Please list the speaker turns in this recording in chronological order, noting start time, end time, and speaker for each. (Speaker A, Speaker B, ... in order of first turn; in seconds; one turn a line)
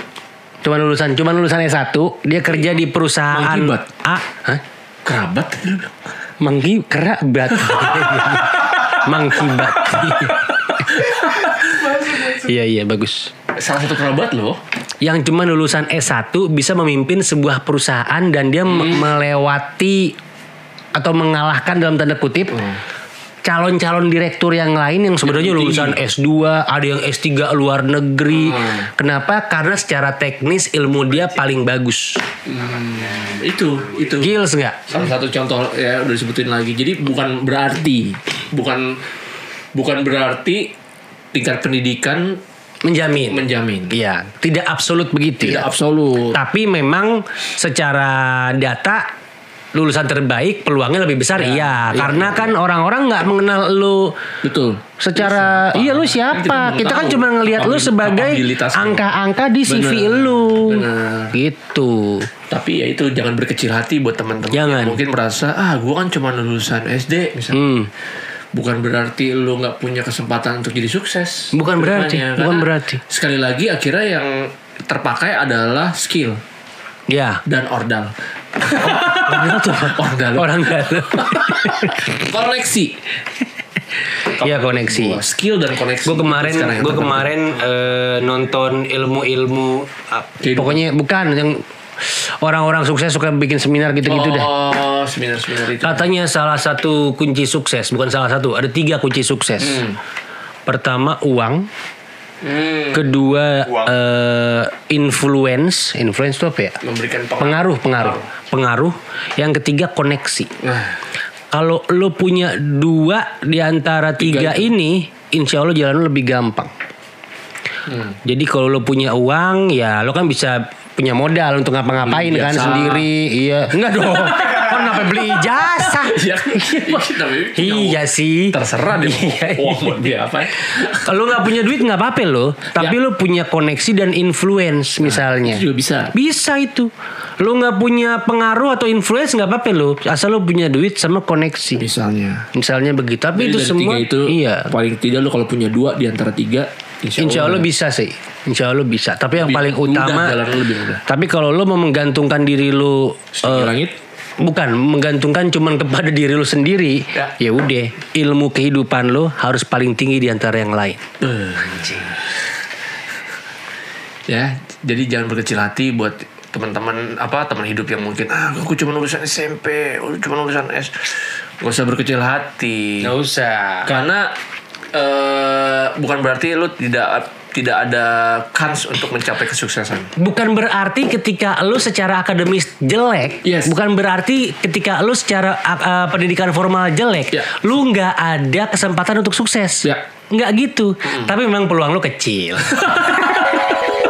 Speaker A: 0.6-4.6
Speaker B: 3.3-3.9
Speaker B: 5.0-5.9
Speaker A: 6.4-11.2
Speaker B: 7.6-12.4
Speaker A: 12.1-13.3
Speaker B: 13.6-14.6
Speaker A: 15.0-20.2
Speaker B: 18.7-19.1
Speaker A: 21.0-22.7
Speaker A: 23.4-32.2
Speaker B: 25.2-26.0
Speaker B: 28.3-28.9
Speaker B: 32.5-34.4
Speaker A: 34.2-34.9
Speaker B: 34.9-39.0
Speaker B: 39.8-40.7
Speaker B: 41.3-42.4
Speaker A: 42.8-45.7
Speaker B: 43.3-44.0
Speaker B: 45.4-46.4
Speaker A: 46.3-49.1
Speaker A: 49.7-54.1
Speaker B: 51.4-52.5
Speaker B: 54.4-59.0
Speaker A: 55.0-62.3
Speaker B: 59.7-61.4
Speaker B: 62.5-67.6
Speaker A: 64.5-65.0
Speaker A: 67.5-67.9
Speaker B: 68.5-76.4
Speaker A: 71.5-73.0
Speaker A: 77.1-77.4
Speaker B: 77.5-83.0
Speaker A: 78.7-82.1
Speaker A: 84.2-85.2
Speaker B: 84.4-87.4
Speaker A: 86.0-94.5
Speaker B: 90.4-90.8
Speaker B: 94.0-96.1
Speaker A: 95.8-99.8
Speaker B: 99.6-100.0
Speaker A: 100.7-101.7
Speaker B: 102.4-103.1
Speaker A: 102.9-106.8
Speaker B: 106.8-108.3
Speaker A: 107.4-110.5
Speaker B: 110.6-111.0
Speaker A: 111.5-116.7
Speaker B: 114.2-114.7
Speaker B: 117.9-118.2
Speaker A: 118.2-141.8
Speaker B: 122.0-123.1
Speaker B: 124.1-128.0
Speaker B: 128.5-131.2
Speaker B: 135.0-136.1
Speaker B: 141.8-142.5
Speaker A: 142.5-144.7
Speaker B: 143.4-147.7
Speaker A: 147.2-150.4
Speaker B: 149.4-151.0
Speaker A: 151.1-153.7
Speaker B: 153.3-154.0
Speaker A: 154.4-161.0
Speaker B: 161.2-162.4
Speaker B: 164.3-173.1
Speaker A: 173.0-173.9
Speaker B: 173.8-174.3
Speaker B: 174.9-180.1
Speaker A: 180.2-193.5
Speaker B: 183.4-183.8
Speaker B: 187.3-187.6
Speaker B: 191.1-191.3
Speaker B: 192.8-193.4